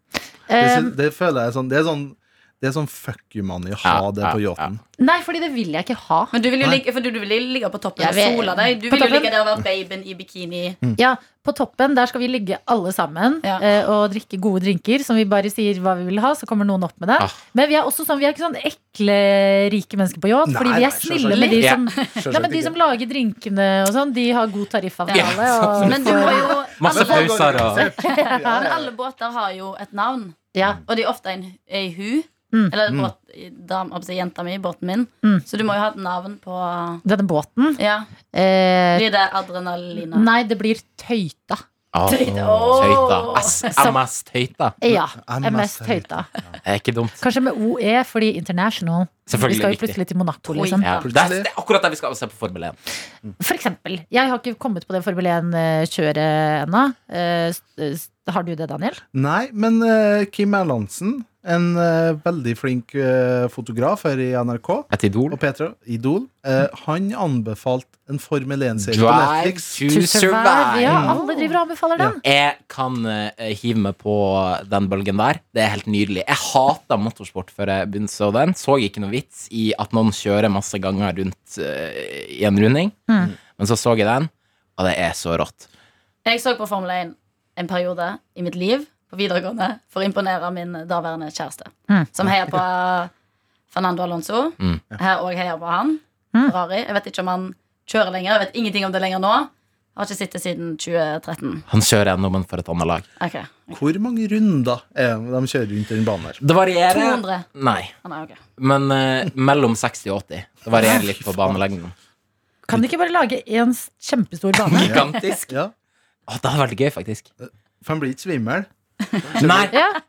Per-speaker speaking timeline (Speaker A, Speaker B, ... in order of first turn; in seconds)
Speaker A: 0.5-0.9, 5.0-6.3, 8.0-9.3, 11.0-26.6, 28.0-28.7, 30.5-30.8, 37.0-37.8, 38.3-39.0, 40.0-41.6, 43.6-44.0, 44.8-46.3, 47.2-50.9, 53.4-59.0, 69.9-72.2, 112.7-115.0
Speaker B: 0.6-4.8, 20.5-21.6, 22.2-22.8, 25.9-28.9, 42.3-43.1, 44.9-46.6, 51.0-51.5, 59.1-69.8, 70.9-71.2, 103.7-106.4, 110.7-111.6, 114.8-115.7, 117.4-118.7, 119.2-119.7
Speaker C: 3.8-4.7, 25.1-27.9, 41.9-44.8, 46.6-47.2, 49.3-50.0, 50.8-52.8, 64.9-65.4, 68.9-71.3, 72.2-85.7, 101.7-103.0, 106.4-107.9, 108.6-111.9, 114.6-115.6, 116.3-117.3, 119.4-119.7
Speaker D: 6.3-10.8, 21.3-22.2, 25.1-37.0, 37.8-38.1, 38.9-40.3, 42.1-43.9, 50.5-51.1, 86.2-93.1, 93.7-101.6, 103.2-103.8, 106.9-107.5, 108.0-108.4